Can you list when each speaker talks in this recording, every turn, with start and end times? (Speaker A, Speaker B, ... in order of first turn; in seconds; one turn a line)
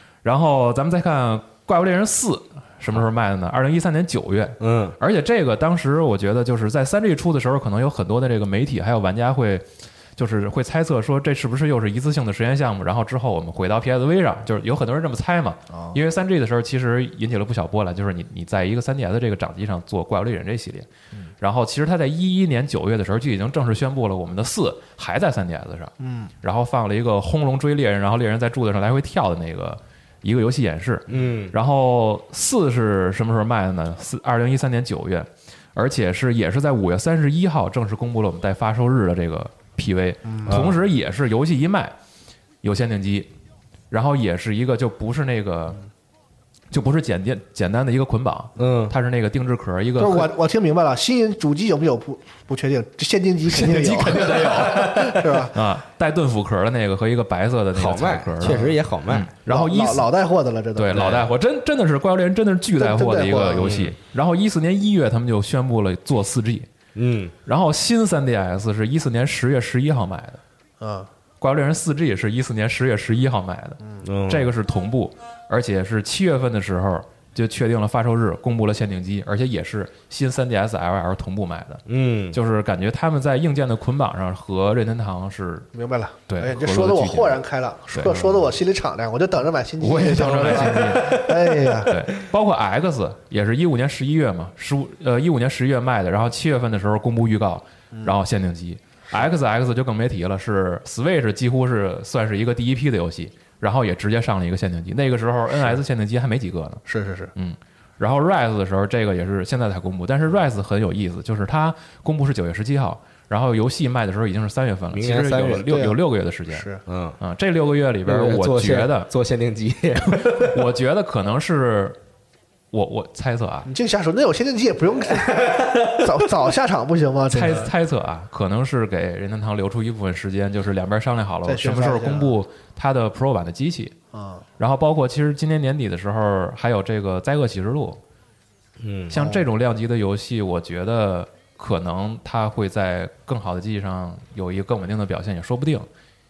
Speaker A: 0.2-20.9
Speaker B: 4.6-5.0
Speaker C: 15.7-16.0
Speaker A: 21.4-41.9
Speaker C: 26.0-26.3
Speaker B: 31.1-31.5
Speaker C: 40.3-40.5
Speaker B: 40.5-40.8
Speaker A: 42.6-43.3
Speaker A: 43.9-45.8
Speaker A: 46.7-50.3
Speaker B: 48.6-49.0
Speaker C: 50.0-55.6
Speaker A: 53.5-60.1
Speaker B: 57.7-59.3
Speaker C: 59.5-61.2
Speaker A: 60.8-66.7
Speaker B: 60.9-61.2
Speaker C: 62.8-63.7
Speaker B: 63.6-63.9
Speaker B: 67.0-67.3
Speaker A: 67.5-70.4
Speaker C: 70.8-71.1
Speaker A: 71.4-85.7
Speaker B: 74.0-74.5
Speaker B: 81.9-82.4
Speaker C: 85.7-91.9
Speaker A: 86.3-88.5
Speaker A: 89.8-91.3
Speaker B: 90.8-91.2
Speaker A: 91.8-106.8
Speaker C: 106.9-107.3
Speaker A: 107.3-116.7
Speaker B: 114.9-115.7
Speaker C: 115.7-116.0
Speaker C: 116.5-116.8
Speaker B: 116.8-117.2
Speaker A: 117.2-119.1
Speaker B: 118.0-120.7
Speaker A: 120.2-122.0
Speaker A: 122.7-123.7
Speaker C: 123.7-127.7
Speaker B: 125.3-126.0
Speaker A: 127.3-133.9
Speaker C: 131.4-132.3
Speaker C: 134.1-134.4
Speaker A: 134.6-138.0
Speaker B: 138.8-139.1
Speaker A: 139.1-145.9
Speaker C: 139.2-139.5